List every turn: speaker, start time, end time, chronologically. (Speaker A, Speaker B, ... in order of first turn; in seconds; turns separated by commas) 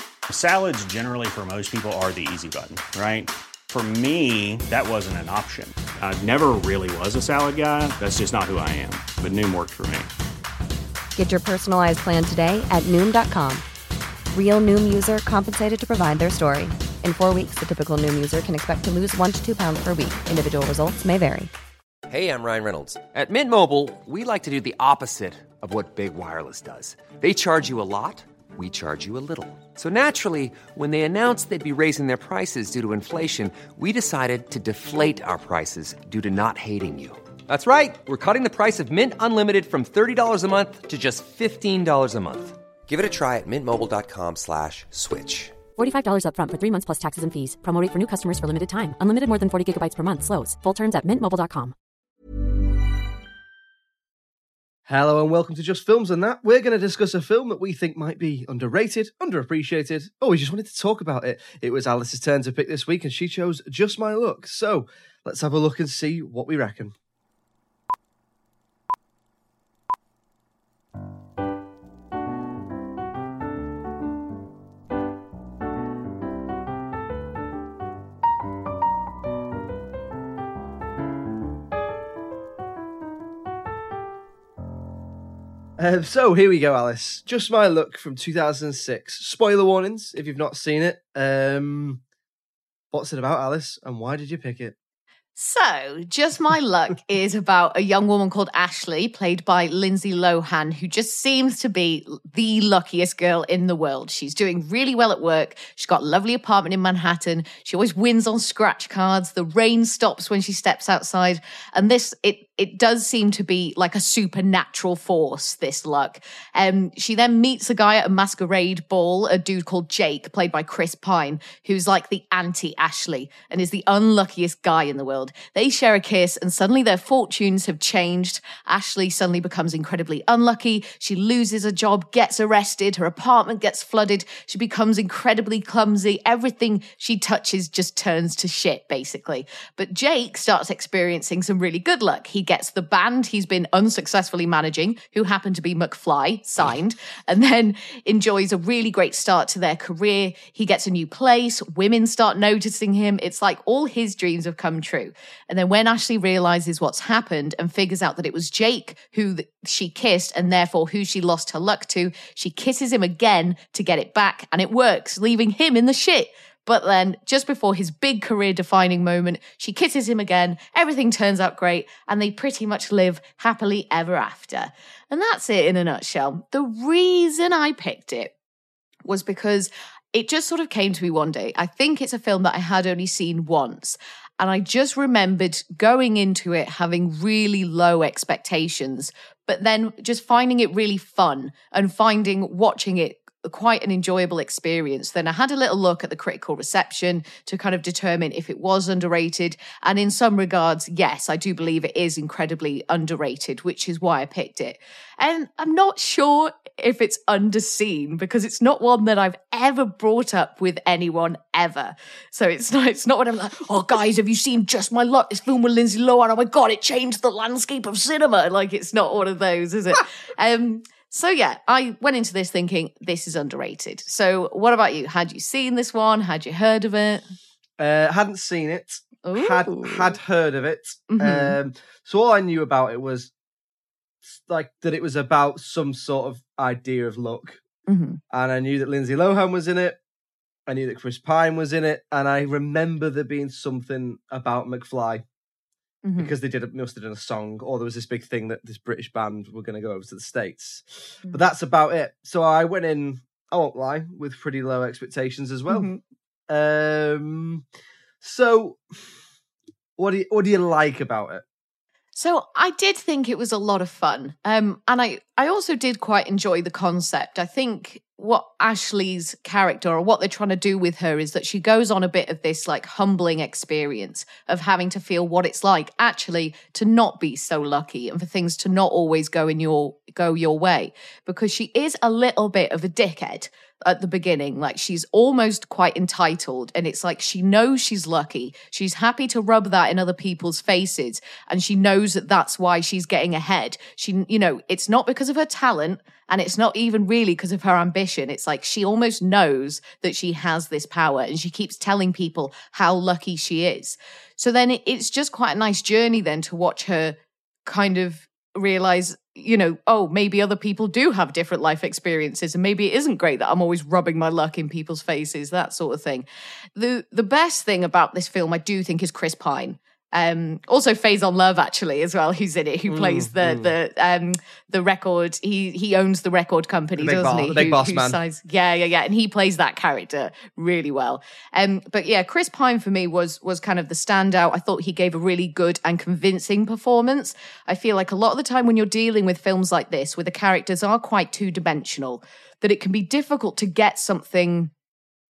Speaker A: 0.3-10.1, Speaker B: 11.2-13.7, Speaker B: 14.3-21.5, Speaker C: 22.1-45.6, Speaker D: 45.8-51.8, Speaker E: 54.9-66.9, Speaker E: 85.8-92.0, Speaker E: 92.9-94.8, Speaker F: 95.4-178.3, Speaker F: 179.1-227.3, Speaker E: 227.8-233.3, Speaker F: 229.2-230.1, Speaker F: 231.1-231.6, Speaker E: 234.2-237.6, Speaker F: 237.9-238.2, Speaker E: 238.3-240.0, Speaker E: 240.7-245.2, Speaker F: 246.1-246.3, Speaker E: 246.2-255.9, Speaker F: 255.7-256.0, Speaker E: 256.5-257.6, Speaker E: 258.2-258.8, Speaker E: 260.0-261.4, Speaker F: 262.1-344.7, Speaker E: 322.9-323.7, Speaker E: 327.0-328.2